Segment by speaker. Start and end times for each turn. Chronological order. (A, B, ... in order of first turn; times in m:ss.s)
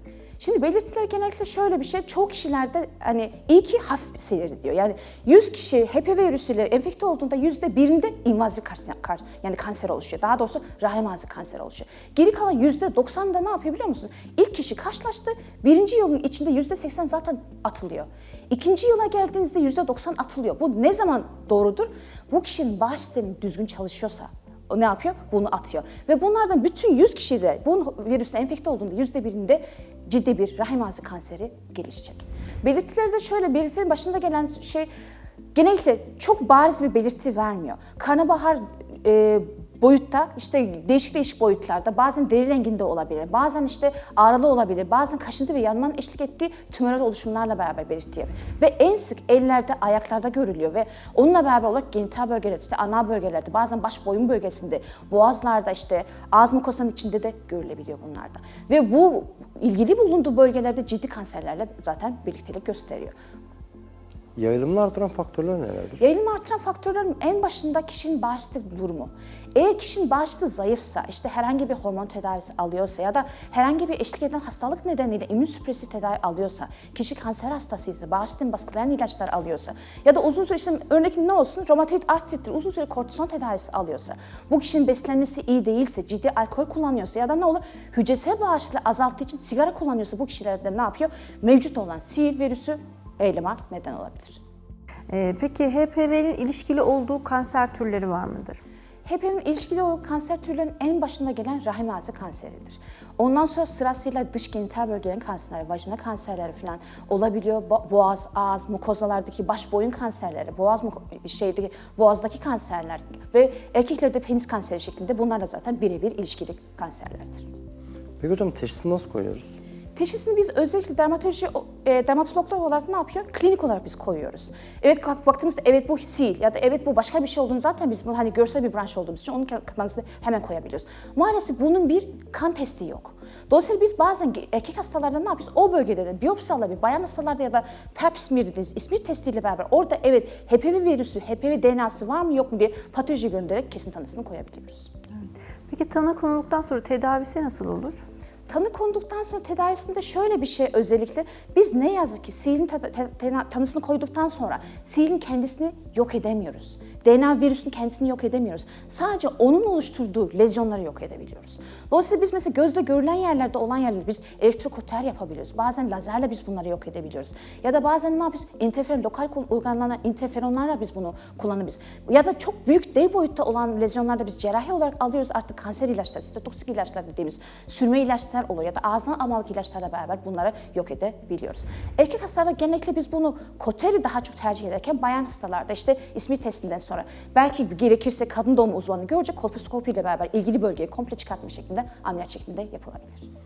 0:00.4-0:34.9 A
0:35.6-1:03.1 A
1:04.4-1:06.0 B
1:06.0-1:34.4 A
1:35.1-1:38.6 C
1:39.1-1:57.5 A
1:58.2-1:59.5 B
2:00.0-2:24.9 A
2:25.2-2:28.0 C
2:28.5-3:13.3 A